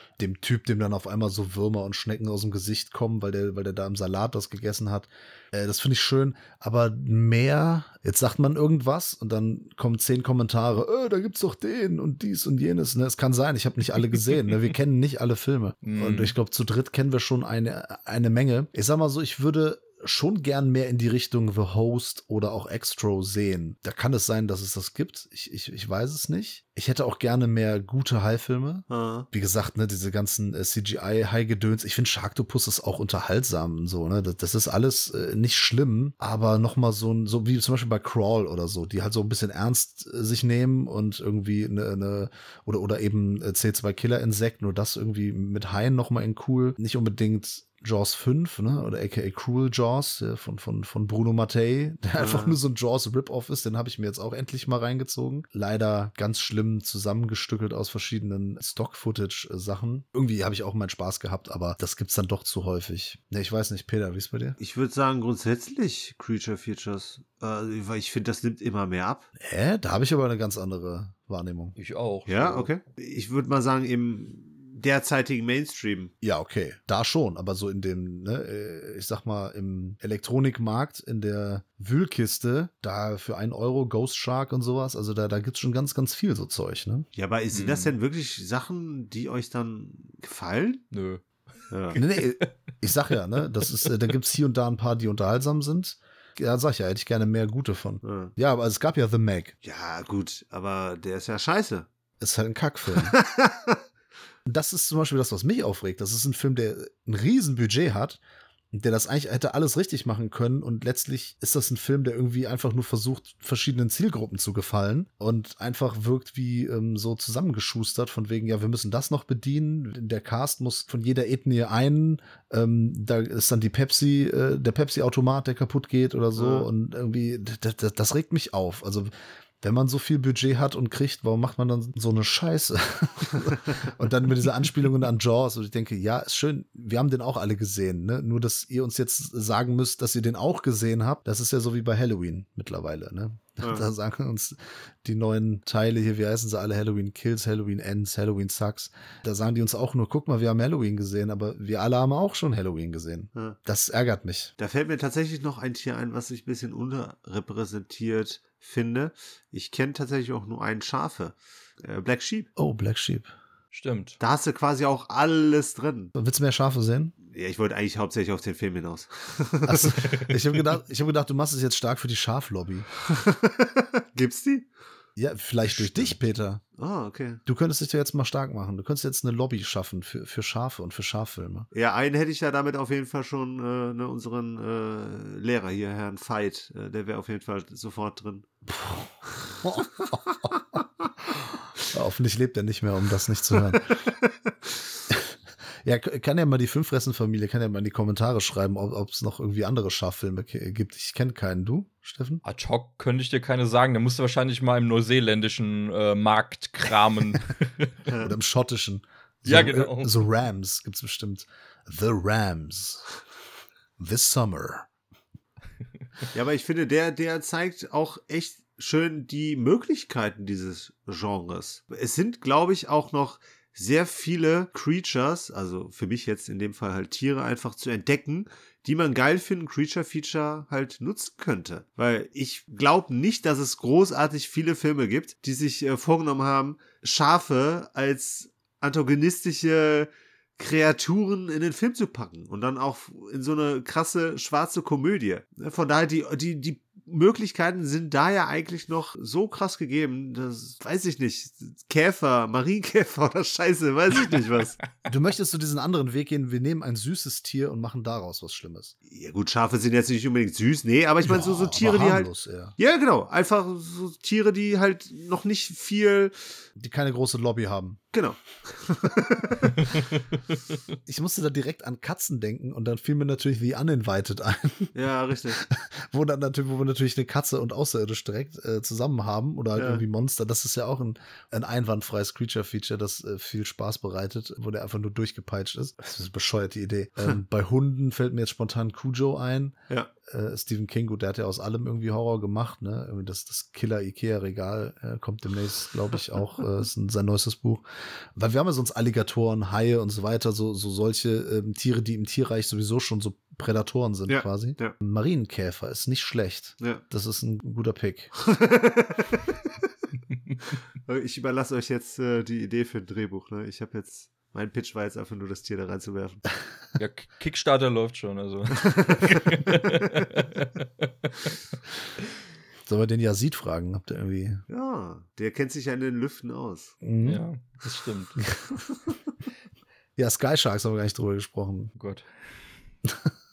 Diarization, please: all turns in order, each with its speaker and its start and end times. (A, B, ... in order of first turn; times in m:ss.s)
0:00.2-1:04.6 A
0:15.8-0:16.3 B
0:28.9-0:29.3 C
0:52.2-0:52.6 C
1:04.6-1:09.3 C
1:09.4-1:11.8 A
1:11.8-1:12.7 B
1:12.2-1:16.1 C
1:16.2-1:27.1 A
1:27.1-1:30.8 C
1:27.5-1:27.9 B
1:30.9-1:31.2 B
1:31.7-1:32.0 C
1:31.9-1:39.5 A
1:38.0-1:38.3 C
1:39.6-1:41.9 C
1:42.2-1:43.2 A
1:43.0-1:43.8 C
1:44.4-1:48.2 A
1:48.7-2:34.5 A
2:06.4-2:06.7 C
2:23.6-2:23.8 C
2:34.6-2:42.5 C
2:42.6-2:43.3 A
2:43.7-2:44.2 B
2:44.2-2:46.1 C
2:46.1-2:47.1 A
2:47.2-2:50.0 C
2:49.6-2:52.9 A
2:53.0-2:54.7 C
2:55.2-2:56.6 A
2:55.8-2:56.1 C
2:56.8-2:57.4 C
2:57.4-3:01.7 A
3:01.7-3:08.5 C
3:08.7-3:10.6 A
3:11.8-3:14.0 A
3:13.7-3:14.7 C
3:15.1-3:22.4 A
3:22.4-3:27.9 B
3:28.1-3:28.3 C
3:28.2-3:33.1 A
3:29.4-3:30.2 B
3:34.0-3:34.9 A
3:36.3-4:14.8 C
4:15.1-4:18.9 A
4:19.1-4:26.6 C
4:21.2-4:22.8 A
4:26.8-4:28.0 A
4:28.1-4:29.7 C
4:31.0-4:34.9 A
4:34.9-4:35.6 C
4:35.6-4:57.8 A
4:39.7-4:40.0 C
4:58.4-5:08.3 A
5:04.3-5:04.9 C
5:08.4-5:09.4 C
5:10.7-5:16.4 C
5:17.0-5:21.5 B
5:22.8-5:24.6 A
5:24.7-5:26.9 C
5:27.0-5:27.4 A
5:27.2-5:28.4 B
5:28.6-5:28.8 A
5:30.2-5:31.9 A
5:32.0-5:32.3 B
5:33.0-5:33.3 A